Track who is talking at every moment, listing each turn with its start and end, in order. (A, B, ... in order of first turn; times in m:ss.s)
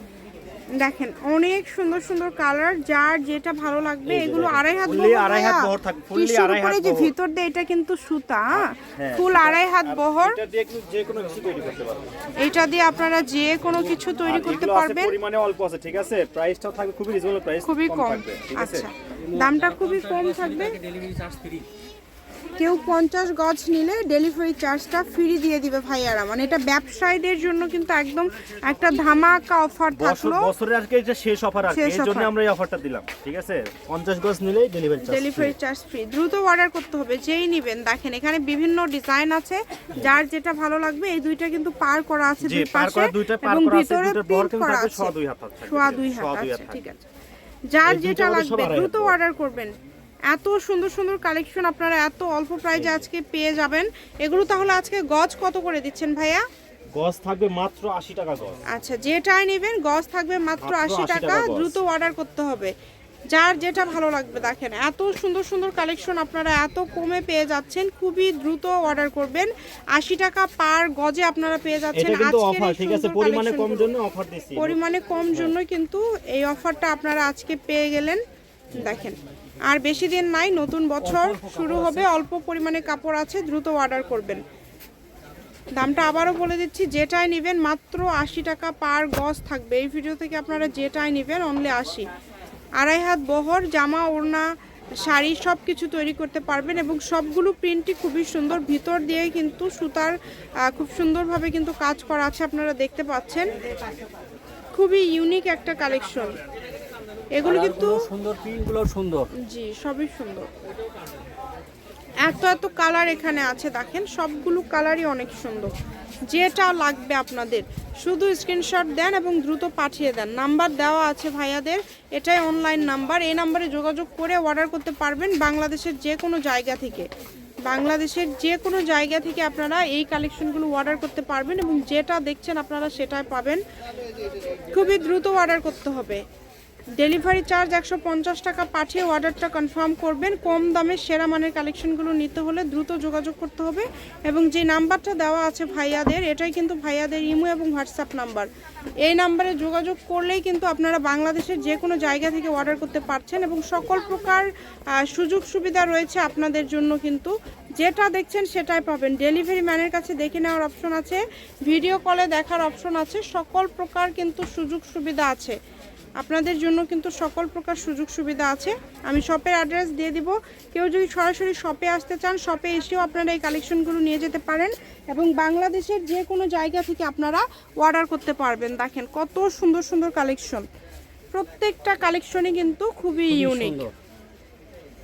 0:00.8-0:10.4 A
0:04.1-0:07.2 B
0:08.5-0:12.1 B
0:12.4-0:15.2 A
0:14.2-0:18.9 B
0:17.6-0:20.8 A
0:19.3-0:21.7 C
0:22.6-0:30.5 A
0:29.9-0:35.6 B
0:31.7-0:32.3 A
0:35.0-0:45.1 A
0:42.4-0:46.8 B
0:45.6-0:47.1 A
0:47.7-0:49.7 A
0:47.8-0:49.2 B
0:50.3-0:56.4 A
0:57.0-0:58.6 B
0:58.7-1:02.7 A
1:00.6-1:01.8 B
1:03.3-1:13.9 A
1:11.9-1:14.8 B
1:14.6-1:18.2 A
1:18.7-1:24.4 A
1:21.1-1:22.0 C
1:25.7-1:32.1 A
1:32.8-1:34.5 A
1:35.0-1:43.5 A
1:44.7-1:46.4 A
1:47.4-1:48.1 A
1:47.4-1:49.3 C
1:49.4-1:50.5 A
1:52.2-1:55.7 A
1:56.3-2:07.1 A
2:07.6-2:13.6 A
2:14.7-2:16.2 A
2:17.0-2:28.5 A
2:29.0-2:45.6 A
2:46.2-3:00.6 A
3:01.3-3:03.9 A
3:03.3-3:03.8 C